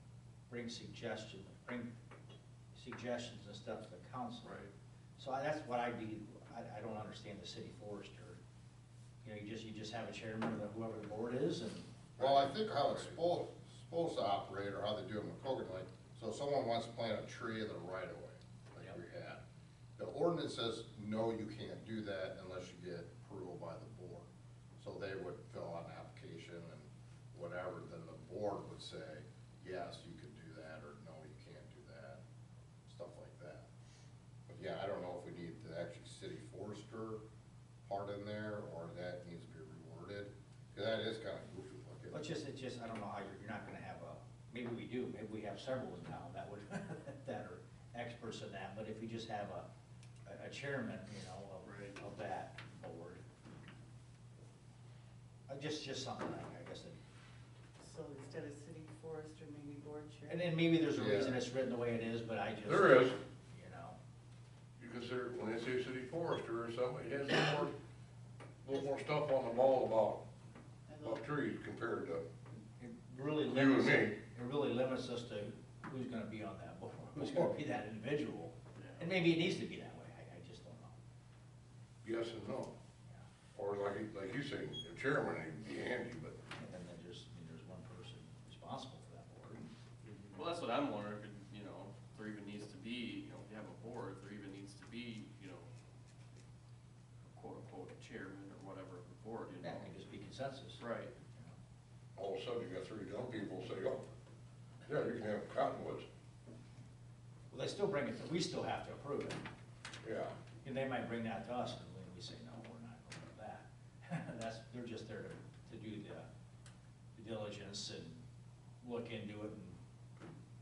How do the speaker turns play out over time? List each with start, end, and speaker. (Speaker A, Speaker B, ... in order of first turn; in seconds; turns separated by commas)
Speaker A: 0.5-1.9, Speaker A: 2.7-4.6, Speaker B: 4.4-4.7, Speaker A: 5.2-8.4, Speaker A: 9.2-12.0, Speaker C: 12.2-19.4, Speaker B: 12.2-13.2, Speaker C: 20.0-24.3, Speaker C: 24.8-32.2, Speaker C: 32.9-33.7, Speaker C: 34.5-37.2, Speaker C: 37.9-42.2, Speaker A: 42.1-49.7, Speaker A: 50.2-53.2, Speaker B: 51.6-52.0, Speaker A: 55.5-57.0, Speaker D: 57.8-60.5, Speaker A: 60.3-64.0, Speaker C: 61.0-61.4, Speaker E: 62.6-63.2, Speaker E: 64.8-67.8, Speaker E: 68.6-70.3, Speaker D: 70.9-71.2, Speaker E: 71.0-72.2, Speaker A: 72.8-81.0, Speaker E: 73.5-74.2, Speaker B: 78.8-79.0, Speaker E: 82.0-82.8, Speaker E: 83.5-86.4, Speaker A: 86.5-89.7, Speaker B: 90.0-95.7, Speaker B: 97.3-99.9, Speaker A: 99.6-100.8, Speaker B: 100.8-101.1, Speaker E: 102.2-104.1, Speaker E: 104.8-106.1, Speaker A: 107.5-109.5, Speaker E: 110.0-110.3, Speaker A: 110.6-116.3, Speaker A: 117.2-118.2, Speaker A: 118.8-119.8